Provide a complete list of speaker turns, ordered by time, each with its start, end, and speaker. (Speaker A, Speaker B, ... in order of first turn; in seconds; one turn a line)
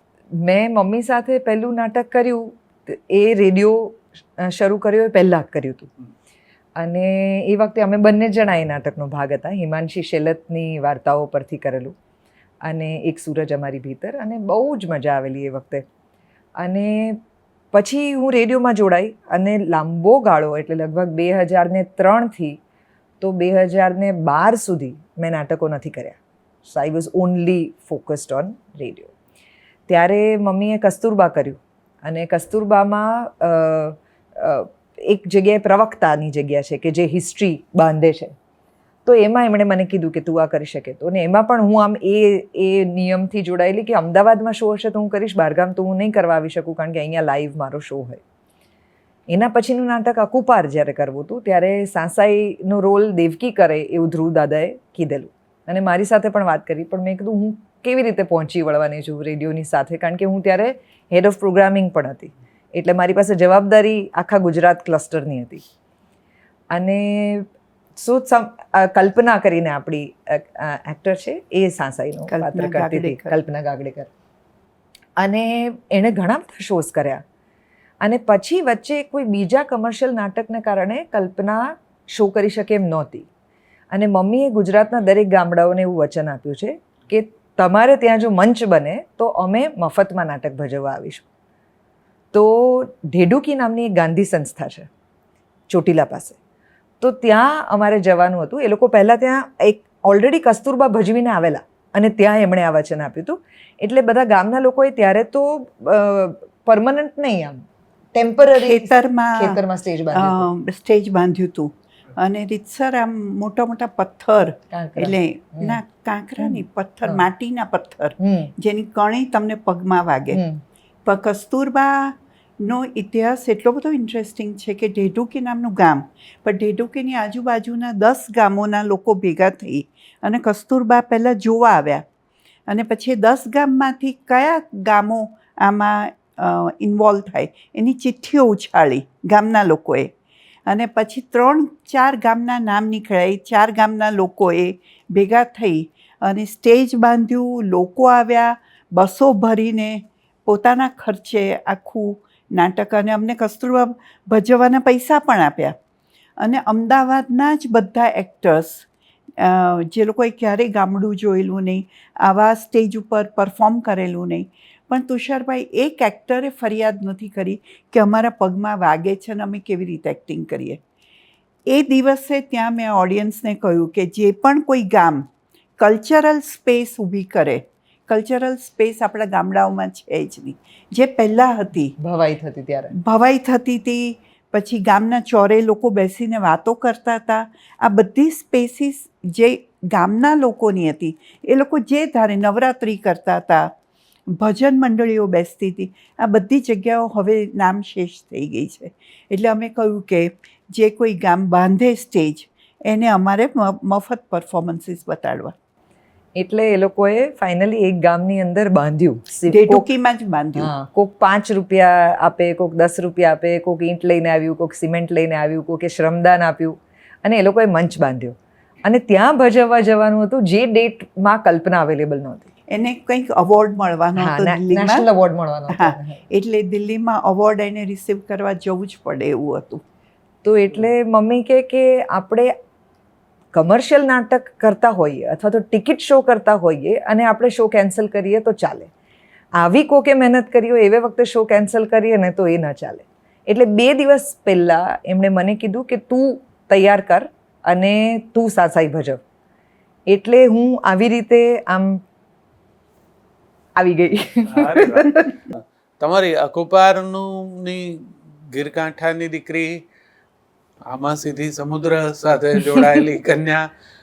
Speaker A: 0.4-5.9
Speaker A: 6.8-11.9
Speaker A: 12.6-15.8
Speaker A: 16.6-17.2
Speaker A: 17.7-22.6
Speaker A: 23.2-29.1
Speaker A: 29.9-38.3
Speaker A: 39.0-48.2
Speaker A: 49.3-65.6
Speaker A: 66.7-74.1
Speaker B: 72.3-73.4
Speaker A: 75.2-77.2
Speaker A: 78.0-83.3
Speaker A: 83.9-91.2
Speaker A: 92.3-94.9
Speaker A: 95.7-96.4
Speaker A: 97.0-110.5
Speaker B: 108.5-109.6
Speaker B: 110.1-120.4
Speaker A: 114.7-115.8
Speaker A: 116.4-117.2
Speaker A: 118.2-118.5
Speaker A: 120.3-120.6
Speaker B: 121.0-132.0
Speaker B: 132.7-140.1
Speaker B: 140.7-155.7
Speaker B: 156.4-158.8
Speaker B: 159.4-170.8
Speaker B: 171.7-175.2
Speaker B: 175.8-181.9
Speaker A: 182.0-183.0
Speaker B: 183.0-193.7
Speaker B: 194.3-205.5
Speaker A: 206.4-209.8
Speaker B: 209.5-210.7
Speaker A: 210.6-222.5
Speaker B: 222.7-225.1
Speaker A: 224.2-226.2
Speaker B: 225.7-229.8
Speaker A: 230.4-232.5
Speaker A: 233.5-238.9
Speaker A: 239.6-249.2
Speaker A: 250.1-252.0
Speaker A: 253.8-255.3
Speaker C: 254.5-259.8
Speaker C: 260.9-263.7